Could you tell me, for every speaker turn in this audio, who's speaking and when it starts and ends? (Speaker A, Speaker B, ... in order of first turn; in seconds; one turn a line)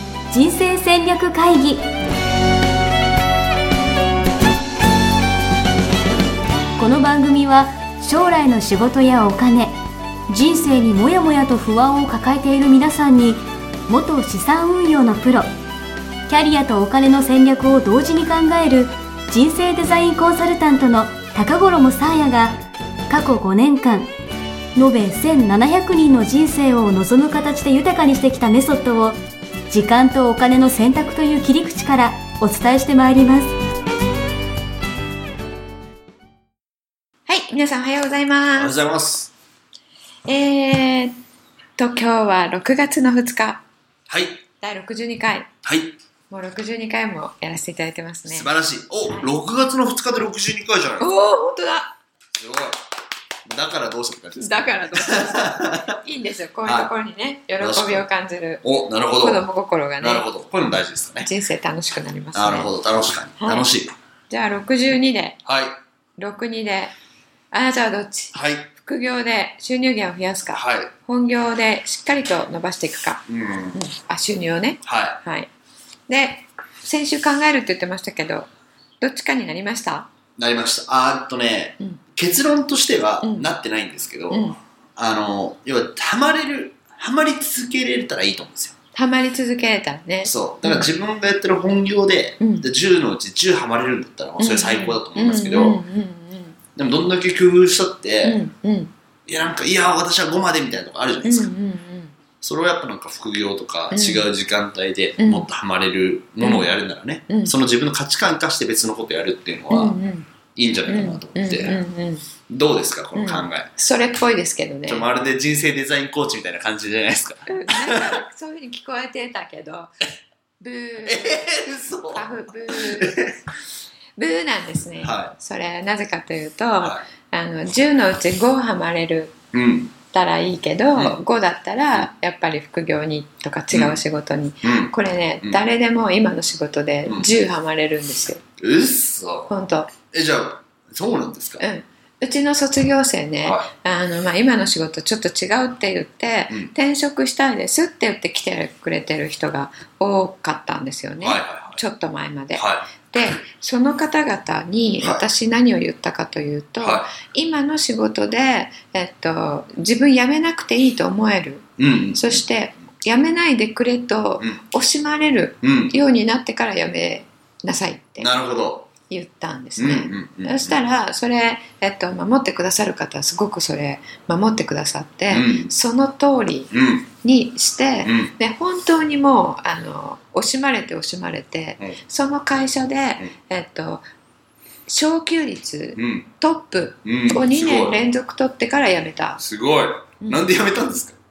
Speaker A: 0.3-1.8
Speaker A: 6.8-9.8
Speaker A: 10.3-15.5
Speaker A: 16.3-22.6
Speaker A: 23.1-24.1
Speaker A: 24.8-29.2
Speaker A: 29.7-33.5
Speaker B: 37.3-38.7
Speaker C: 38.6-39.3
Speaker B: 40.2-41.1
Speaker B: 41.8-43.6
Speaker C: 44.1-44.4
Speaker B: 44.6-45.5
Speaker C: 45.6-46.0
Speaker B: 46.3-48.5
Speaker C: 48.3-51.1
Speaker B: 51.0-52.0
Speaker C: 52.4-52.9
Speaker C: 53.5-56.0
Speaker B: 54.4-58.6
Speaker C: 56.6-56.9
Speaker C: 57.6-58.0
Speaker C: 58.6-59.4
Speaker B: 59.2-60.2
Speaker C: 60.0-61.3
Speaker B: 61.2-62.7
Speaker C: 62.3-63.9
Speaker B: 63.4-63.7
Speaker B: 64.3-65.4
Speaker C: 65.4-65.8
Speaker B: 66.2-66.9
Speaker B: 67.5-75.5
Speaker C: 68.3-68.7
Speaker C: 70.5-70.9
Speaker C: 73.3-73.8
Speaker C: 74.8-75.2
Speaker B: 76.1-78.5
Speaker B: 79.0-80.1
Speaker C: 80.4-88.8
Speaker B: 83.2-83.5
Speaker B: 84.3-84.6
Speaker B: 88.9-90.9
Speaker C: 90.2-95.8
Speaker B: 92.4-92.7
Speaker B: 94.4-96.6
Speaker C: 96.8-98.4
Speaker B: 98.2-98.9
Speaker C: 99.2-101.5
Speaker B: 101.2-102.1
Speaker C: 102.4-110.0
Speaker B: 103.9-104.3
Speaker B: 105.2-105.5
Speaker B: 106.4-106.7
Speaker B: 107.3-107.5
Speaker B: 109.7-110.3
Speaker C: 110.5-111.8
Speaker B: 110.9-112.2
Speaker C: 112.5-113.7
Speaker B: 113.1-115.0
Speaker C: 114.9-118.2
Speaker B: 117.5-119.9
Speaker B: 120.6-121.5
Speaker C: 121.0-123.4
Speaker B: 122.1-123.2
Speaker B: 124.2-129.4
Speaker C: 125.0-125.3
Speaker C: 129.5-129.9
Speaker B: 130.1-138.4
Speaker C: 133.7-134.0
Speaker C: 134.6-135.6
Speaker C: 138.6-139.5
Speaker B: 139.5-139.9
Speaker C: 140.1-141.6
Speaker B: 141.6-168.3
Speaker C: 143.4-143.7
Speaker C: 151.2-151.8
Speaker C: 152.5-152.9
Speaker C: 156.8-157.1
Speaker C: 161.8-162.4
Speaker C: 165.6-165.9
Speaker C: 168.2-168.9
Speaker B: 169.1-184.1
Speaker C: 169.8-170.8
Speaker C: 175.3-175.7
Speaker C: 176.7-177.1
Speaker C: 178.0-178.3
Speaker B: 184.9-189.4
Speaker C: 185.9-186.3
Speaker C: 187.0-188.0
Speaker C: 189.4-191.2
Speaker B: 190.2-190.5